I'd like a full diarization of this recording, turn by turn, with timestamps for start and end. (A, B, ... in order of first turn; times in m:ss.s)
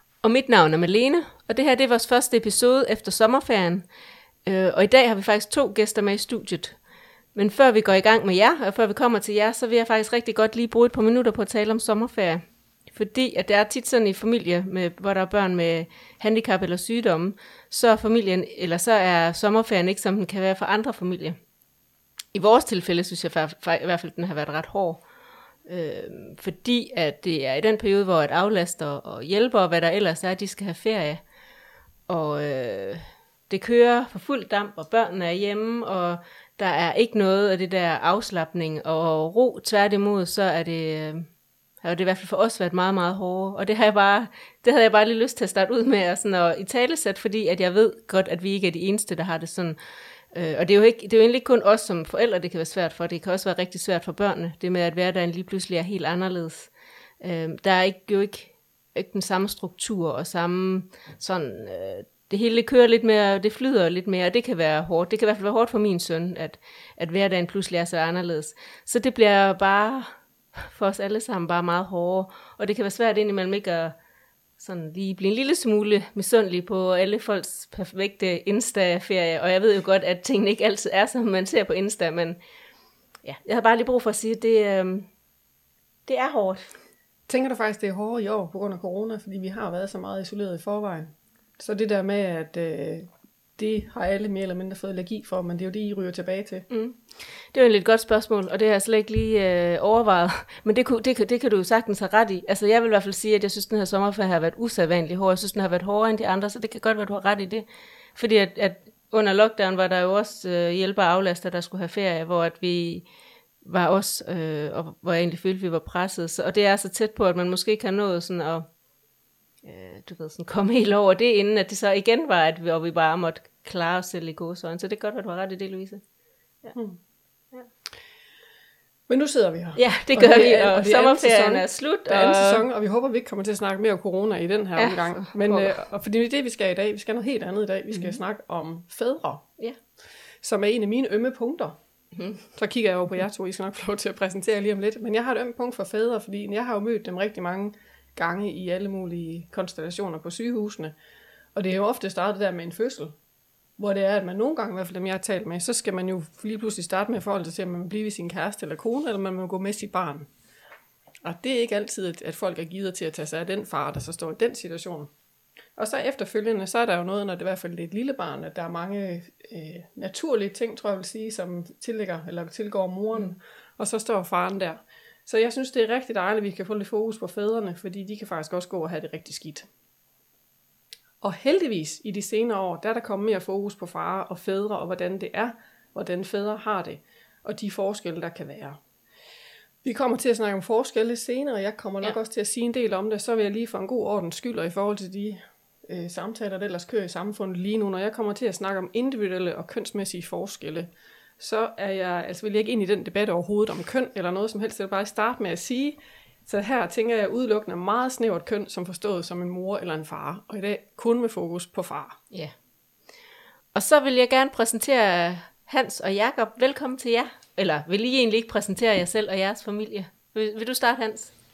0:00.2-0:03.8 A
0:04.4-0:06.8 A
0:07.3-0:21.4 A
0:22.3-0:25.0 A
0:25.6-0:31.2 A
0:32.1-0:49.8 A
0:50.3-1:13.9 A
1:14.6-1:22.4 A
1:23.2-1:25.1 A
1:26.0-1:26.7 A
1:27.3-1:36.6 B
1:36.7-1:53.0 A
1:53.6-1:58.7 A
1:59.6-2:06.0 A
2:06.7-2:07.0 B
2:09.1-2:19.4 B
2:09.8-2:12.6 A
2:14.8-2:15.7 A
2:17.9-2:18.2 A
2:20.4-2:21.8 B
2:22.1-2:22.4 A
2:22.5-2:30.9 B
2:31.5-2:33.1 B
2:33.8-2:40.3 B
2:41.2-2:45.1 B
2:45.8-2:59.7 B
3:01.2-3:08.8 B
3:09.8-3:32.2 B
3:33.7-3:41.3 A